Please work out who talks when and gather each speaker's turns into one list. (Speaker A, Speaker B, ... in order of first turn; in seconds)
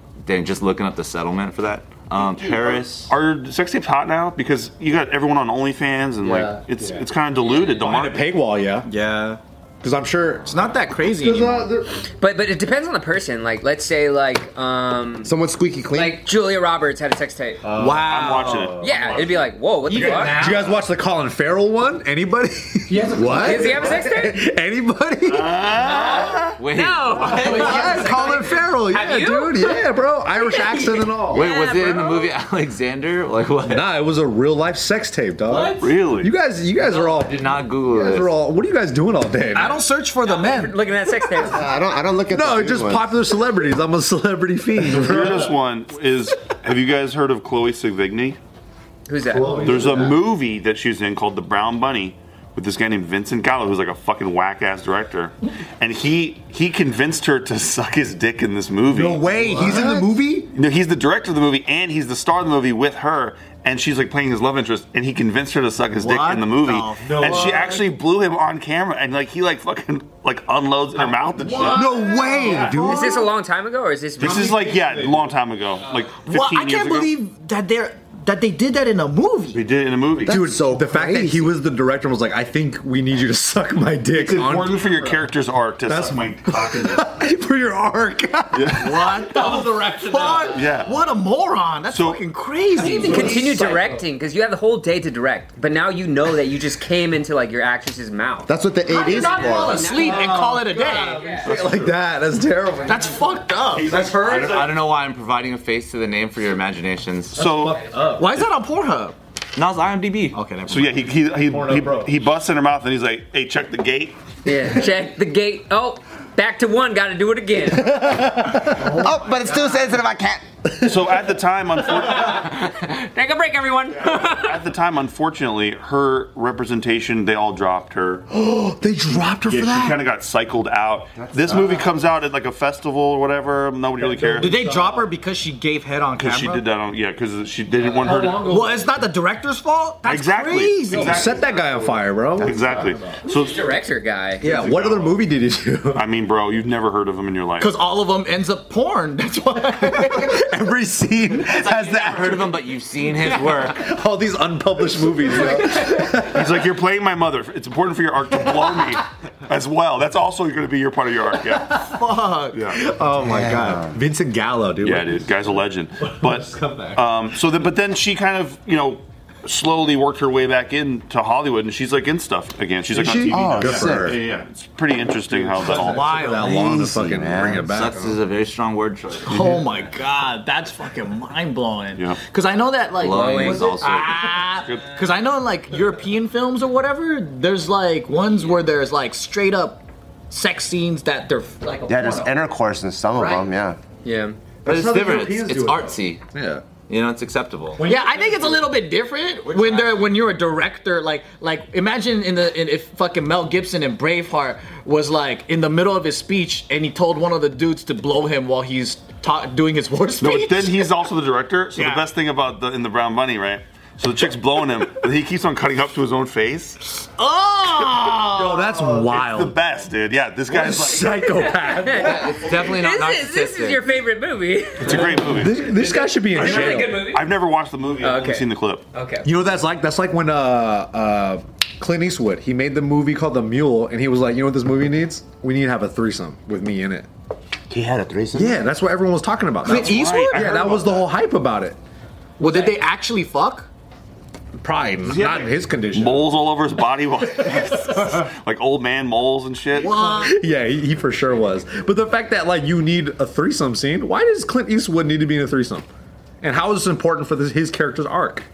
Speaker A: 0.2-3.1, 26.6-28.3, 31.3-33.9, 35.5-35.8, 36.8-38.4, 104.0-107.4, 109.5-110.4, 151.4-153.9, 177.2-179.5, 183.0-184.4, 194.6-196.3, 196.8-197.8, 199.5-200.0, 221.9-223.8
Speaker B: 2.3-8.3, 17.9-19.4, 25.2-26.6, 35.8-36.3, 44.9-48.4, 49.5-59.9, 60.5-72.1, 74.2-77.1, 79.5-80.4, 84.1-87.1, 88.5-89.2, 90.5-91.0, 91.9-92.2, 101.3-102.0, 103.7-104.8, 107.3-108.4, 110.7-114.2, 120.8-122.6, 124.1-128.2, 129.4-134.7, 136.2-138.7, 140.0-143.6, 144.4-145.2, 145.9-147.7, 156.1-161.9, 162.5-162.8, 164.8-176.4, 184.6-185.0, 210.2-216.8, 218.8-221.3, 224.8-225.7, 226.4-228.8, 239.7-241.1, 245.0-250.1
Speaker C: 7.4-7.8, 12.2-15.3, 15.9-17.7, 18.8-20.4, 23.3-24.4, 25.8-32.4, 40.2-41.7, 49.1-49.6, 72.7-74.7, 92.8-101.7, 114.4-118.0, 122.0-124.6, 143.2-144.5, 155.4-156.2, 183.1-183.8, 194.0-194.4, 221.2-227.3, 228.0-229.3, 242.4-242.7
Speaker D: 7.8-8.9, 9.8-12.0, 17.6-19.2, 19.9-26.3, 27.2-31.5, 33.6-39.8, 42.3-45.5, 49.3-50.2, 58.9-60.5, 67.0-67.8, 71.6-73.3, 74.2-75.2, 80.3-85.2, 85.8-90.7, 92.8-93.8, 100.0-103.3, 103.9-104.4, 107.3-108.3, 111.5-112.1, 117.8-119.1, 128.3-130.0, 134.0-135.1, 137.8-139.0, 140.9-143.2, 144.4-146.1, 149.8-156.6, 161.5-165.3, 166.0-167.1, 172.9-174.2, 175.3-178.2, 179.3-179.6, 194.6-196.6, 197.8-198.7, 218.3-219.6, 220.5-222.6, 224.8-227.1, 229.2-237.1, 238.3-241.8, 244.6-246.3, 247.4-248.2, 249.9-255.9, 256.4-258.4
Speaker E: 8.8-9.4, 10.4-11.7, 17.8-18.8, 19.9-20.8, 22.9-23.9, 27.3-28.0, 39.5-40.8, 66.0-67.8, 71.4-73.2, 76.2-79.6, 88.7-93.5, 98.9-101.3, 102.8-104.1, 108.2-109.2, 110.3-111.1, 134.3-136.6, 138.1-141.3, 147.6-150.4, 162.1-162.5, 175.7-176.6, 179.3-192.3, 193.2-193.4, 197.8-210.9, 211.8-212.0, 217.0-218.7, 239.6-240.7, 242.4-243.7, 249.7-250.4
Speaker F: 15.2-16.2, 41.4-43.1, 59.4-60.0, 80.2-81.5, 98.5-99.9, 118.7-120.7, 131.2-131.8, 163.2-164.0, 173.0-174.2, 176.4-177.6, 191.9-193.8, 237.7-238.7